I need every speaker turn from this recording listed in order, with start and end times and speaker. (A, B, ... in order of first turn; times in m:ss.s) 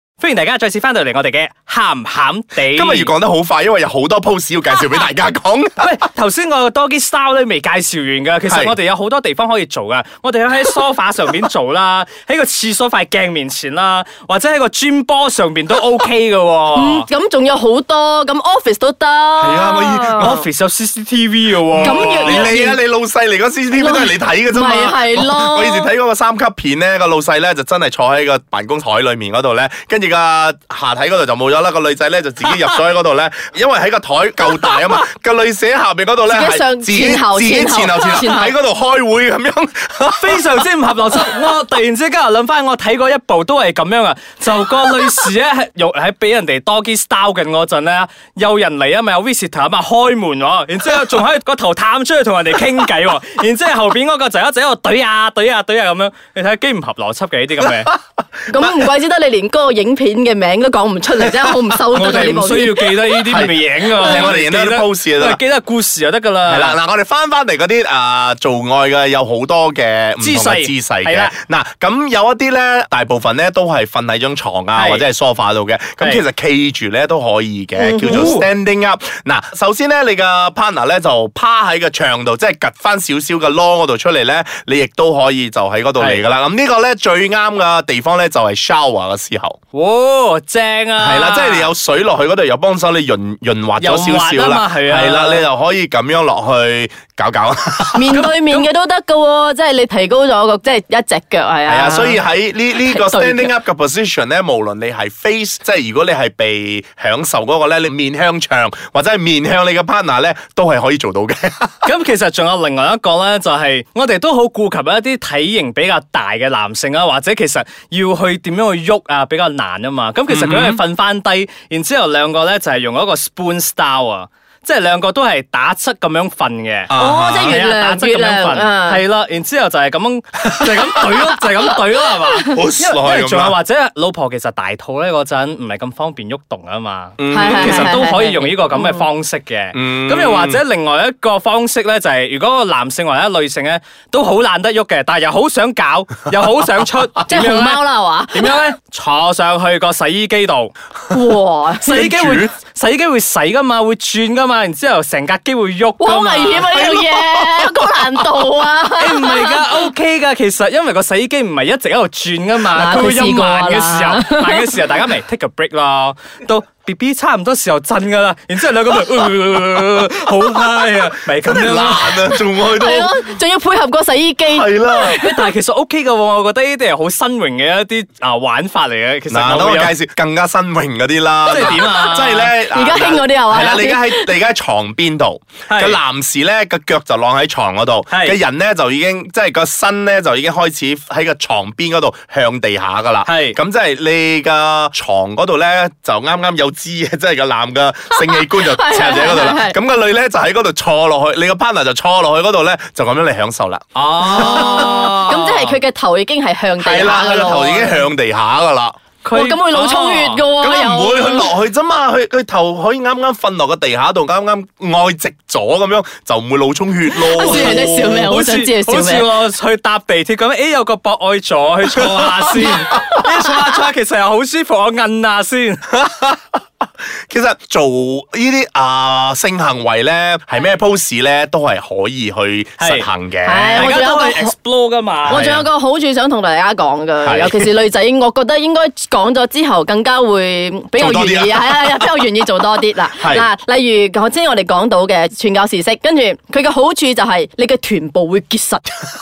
0:00.2-0:03.1 A
0:02.7-0:05.9 B
0:05.8-0:17.1 A
0:08.5-0:08.8 B
0:16.7-0:20.4 C
0:19.4-0:20.4 B
0:20.2-0:22.6 A
0:21.8-0:40.5 B
0:21.8-0:22.8 C
0:23.7-0:25.9 C
0:36.3-0:38.5 C
0:40.1-0:57.9 A
0:58.5-1:03.0 C
1:01.9-1:06.8 A
1:03.2-1:05.4 B
1:06.4-1:29.6 B
1:10.2-1:11.3 A
1:14.8-1:15.0 A
1:17.8-1:18.4 C
1:18.1-1:18.5 A
1:29.7-1:31.7 A
1:31.0-1:38.2 B
1:33.8-1:35.4 A
1:37.9-1:42.2 C
1:38.1-1:38.7 A
1:41.6-1:51.7 B
1:42.7-1:43.5 C
1:51.8-2:30.7 A
2:00.3-2:00.8 B
2:06.9-2:07.6 B
2:06.9-2:09.0 C
2:12.5-2:13.6 B
2:17.2-2:18.0 B
2:17.3-2:19.1 C
2:19.7-2:20.6 B
2:27.3-2:28.6 C
2:31.1-2:32.0 C
2:31.8-2:36.9 A
2:31.9-2:32.5 B
2:36.0-2:39.6 C
2:36.7-2:37.9 B
2:39.0-2:52.4 A
2:42.7-2:44.8 C
2:51.4-2:53.2 B
2:52.6-2:55.5 C
2:54.5-2:55.2 B
2:55.0-3:00.0 A
2:59.3-3:25.3 B
3:01.4-3:02.6 A
3:01.6-3:04.3 C
3:05.7-3:06.0 A
3:08.1-3:08.4 A
3:13.3-3:13.6 A
3:18.1-3:19.8 C
3:24.0-3:25.8 A
3:24.4-3:28.0 C
3:26.8-3:29.0 B
3:29.2-3:30.4 A
3:29.3-3:31.5 C
3:30.6-3:38.3 B
3:37.2-3:39.3 C
3:37.4-3:45.8 A
3:42.0-3:42.7 B
3:45.9-3:46.6 B
3:47.3-3:53.9 B
3:52.8-3:53.1 A
3:53.4-3:54.5 C
3:53.7-3:55.5 A
3:55.3-3:55.7 B
3:55.3-4:09.0 C
3:57.2-3:57.7 B
4:01.0-4:02.3 B
4:03.2-4:03.5 B